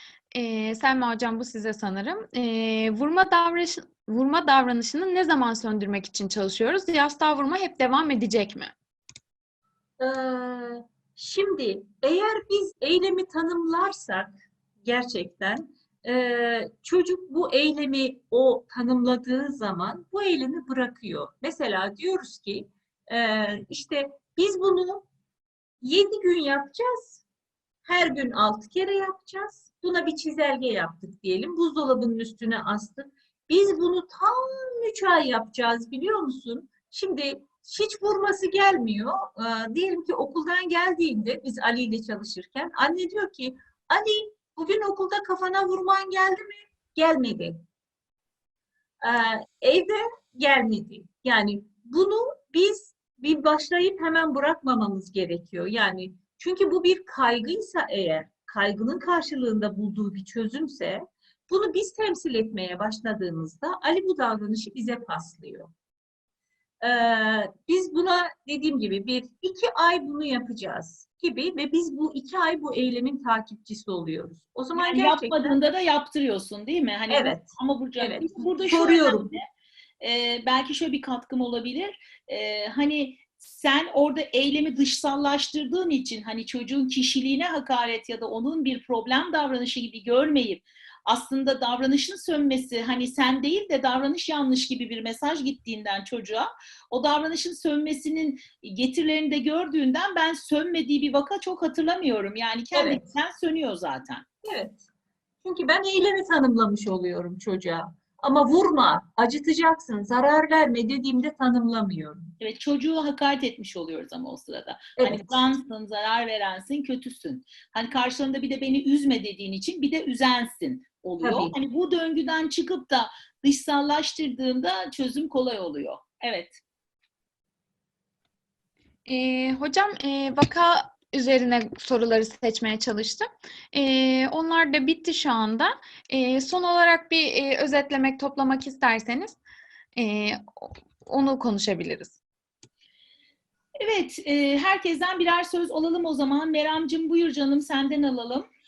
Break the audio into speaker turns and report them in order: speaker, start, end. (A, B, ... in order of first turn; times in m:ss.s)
0:00.3-0:08.7 A
0:10.0-0:25.0 B
0:25.8-0:27.2 B
0:27.8-0:47.6 B
0:49.0-1:05.7 B
1:06.8-1:15.5 B
1:14.8-1:19.4 C
1:17.1-1:19.3 B
1:20.0-1:44.2 C
1:42.7-1:43.0 B
1:44.4-1:44.8 B
1:45.4-1:52.3 B
1:52.4-2:06.6 C
1:55.0-1:55.4 B
2:01.2-2:01.5 B
2:09.1-2:19.4 A
2:20.0-2:22.2 A
2:23.8-2:28.5 C